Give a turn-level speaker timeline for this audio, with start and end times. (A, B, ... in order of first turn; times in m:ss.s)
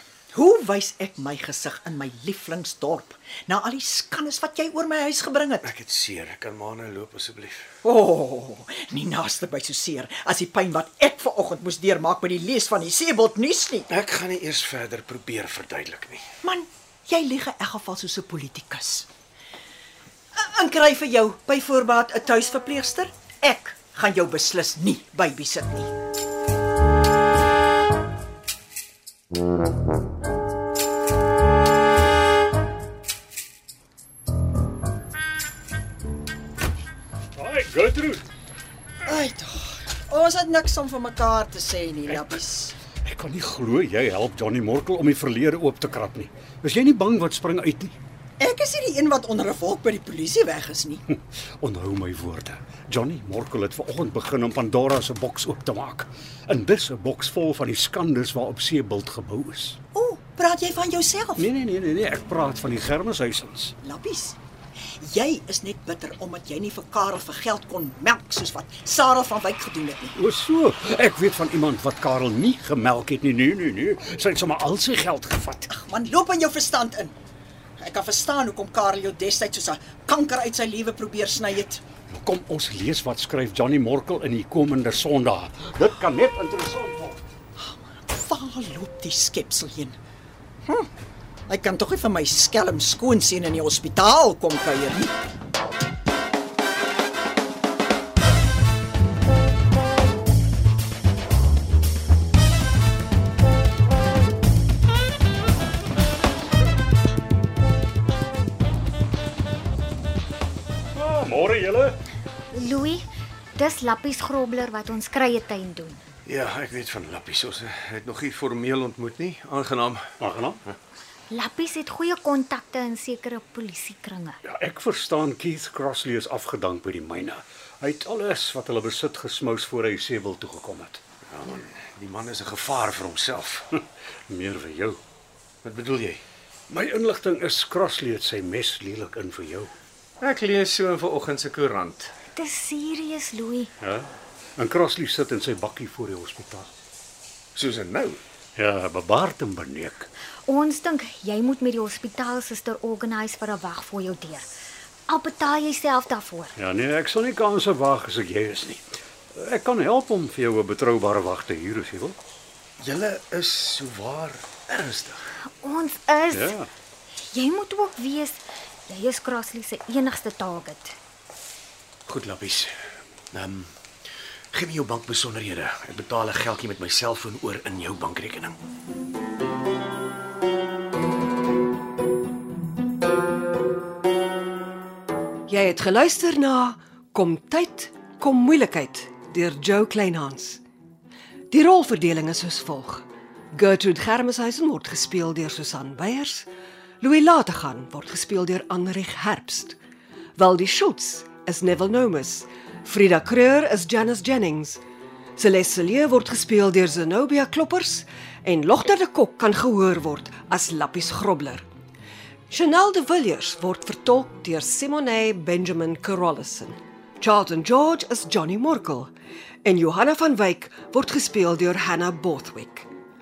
0:00.3-0:05.7 A
0:05.6-0:07.6 B
0:07.8-0:13.9 A
0:13.9-0:16.2 B
0:16.4-0:19.1 A
0:20.4-0:25.9 A
0:37.4-0:38.3 C
0:39.0-0:42.8 A
0:43.0-0:48.0 C
0:48.4-0:51.0 A
0:51.1-0:59.8 C
0:59.9-1:01.4 A
1:01.4-1:03.8 C
1:03.8-1:04.4 A
1:05.0-1:10.2 A
1:10.2-1:15.7 C
1:15.7-1:17.2 A
1:17.8-1:21.8 A
1:22.1-1:27.2 C
1:27.6-1:30.0 A
1:31.5-1:35.1 A
1:51.0-1:52.0 C
1:52.5-1:56.0 D
1:56.2-2:00.1 B
2:00.2-2:00.6 C
2:01.3-2:04.4 D
2:04.4-2:11.0 C
2:11.3-2:13.7 B
2:14.3-2:15.0 C
2:15.6-2:16.2 B
2:16.7-2:19.7 C
2:20.2-2:22.1 B
2:22.4-2:23.7 D
2:23.8-2:26.7 C
2:27.6-2:28.2 B
2:28.6-2:30.1 C
2:30.5-2:34.5 D
2:35.1-2:36.5 D
2:36.6-2:38.8 C
2:39.4-2:42.2 C
2:42.8-2:45.2 B
2:45.6-2:46.6 D
2:46.3-2:46.7 C
2:47.2-2:51.0 D
2:52.1-2:52.7 B
2:53.3-2:53.7 B
2:54.5-2:58.6 B
3:05.5-3:10.6 E
3:11.5-3:16.5 E
3:17.0-3:19.8 E
3:20.4-3:24.8 E
3:25.4-3:31.7 E
3:32.5-3:39.1 E
3:39.6-3:42.9 E